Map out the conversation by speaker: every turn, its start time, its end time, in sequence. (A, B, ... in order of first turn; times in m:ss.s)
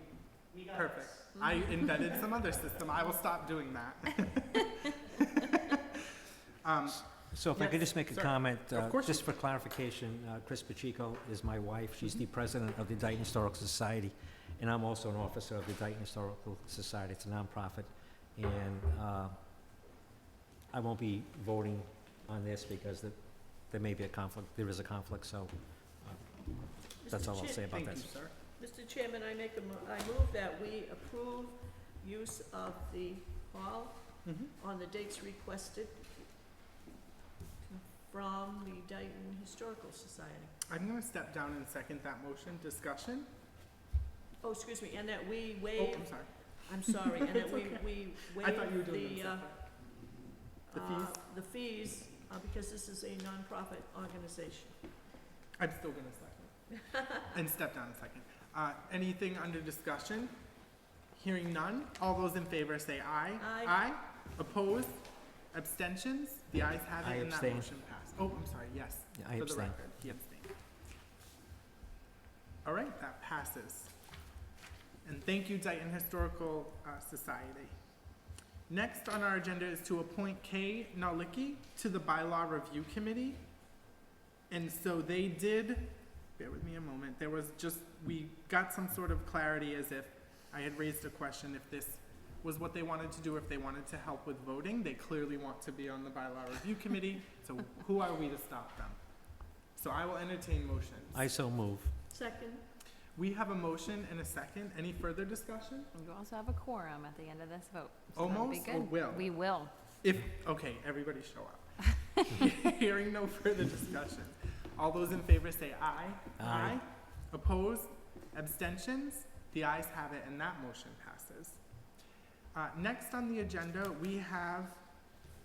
0:00.7-0:05.2 A
0:01.4-0:02.2 B
0:06.6-0:09.3 A
0:07.2-0:19.4 C
0:20.7-0:28.2 C
0:27.0-0:27.8 D
0:27.7-0:28.3 A
0:28.6-0:36.1 D
0:34.2-0:34.5 A
0:37.7-0:40.6 D
0:40.7-0:43.3 A
0:44.4-0:50.0 D
0:45.8-0:49.7 A
0:50.7-0:54.8 D
0:50.7-0:51.2 A
0:55.6-0:56.5 A
0:57.2-1:00.3 A
1:01.1-1:10.5 A
1:03.4-1:03.8 D
1:07.0-1:07.7 C
1:09.1-1:09.8 C
1:12.6-1:13.9 A
1:15.0-1:17.8 A
1:18.7-1:23.4 A
1:24.5-1:39.0 A
1:39.7-1:41.2 A
1:41.1-1:42.0 C
1:42.1-1:42.6 D
1:43.1-1:45.9 A
1:45.9-1:49.7 B
1:48.2-1:49.4 A
1:50.0-2:01.6 A
1:56.4-1:56.8 C
2:02.5-2:04.8 A